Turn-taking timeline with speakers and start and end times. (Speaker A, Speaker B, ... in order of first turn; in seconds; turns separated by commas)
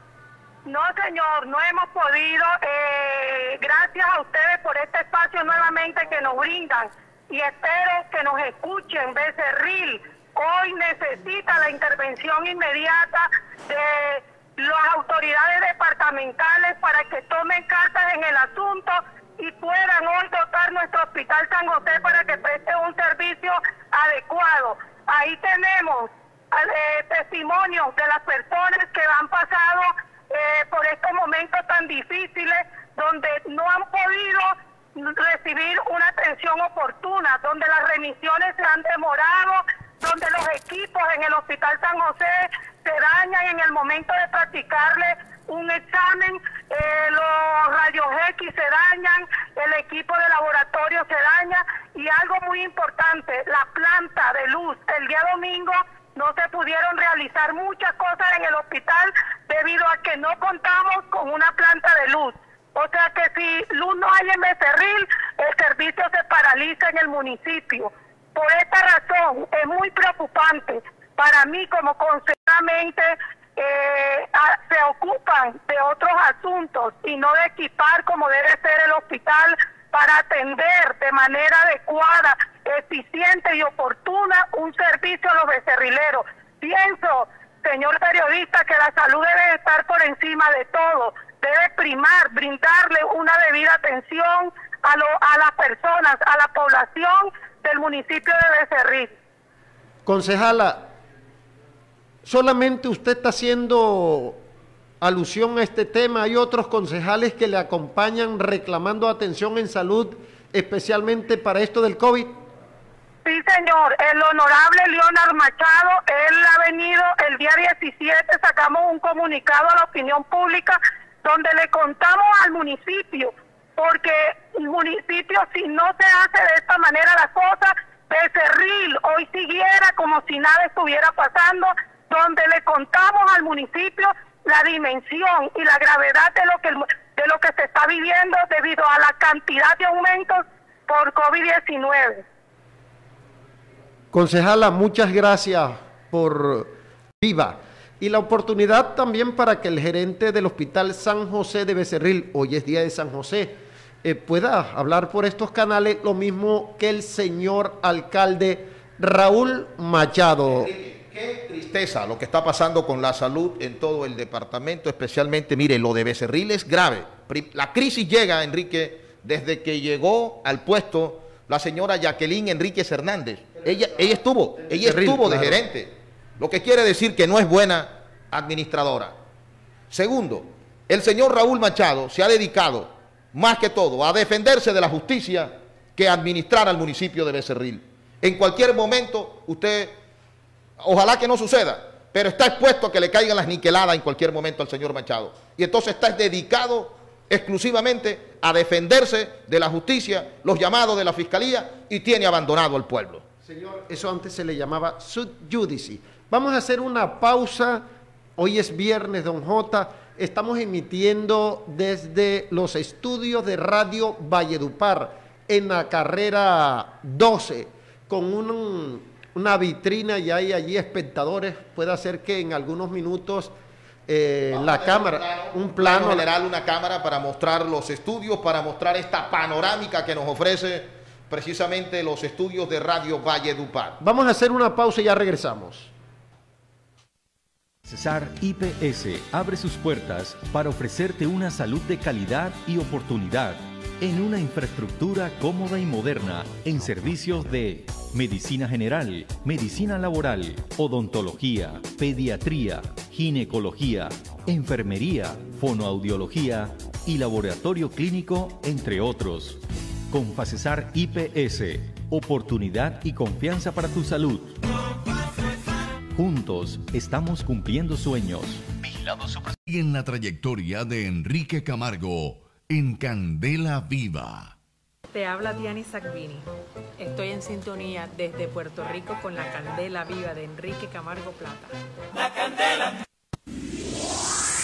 Speaker A: 0.7-99.1, Speaker B: 100.1-100.9, Speaker B: 102.2-104.4, Speaker B: 105.0-112.3, Speaker A: 113.2-142.2, Speaker B: 144.1-160.7, Speaker C: 160.5-179.2, Speaker B: 174.7-175.6, Speaker C: 179.9-189.9, Speaker C: 190.8-203.2, Speaker B: 203.4-207.8, Speaker B: 208.4-223.5, Speaker B: 224.1-226.3, Speaker C: 224.5-234.0, Speaker B: 234.0-235.9, Speaker D: 237.9-264.5, Speaker D: 266.1-268.7, Speaker E: 269.7-274.5, Speaker F: 275.1-281.7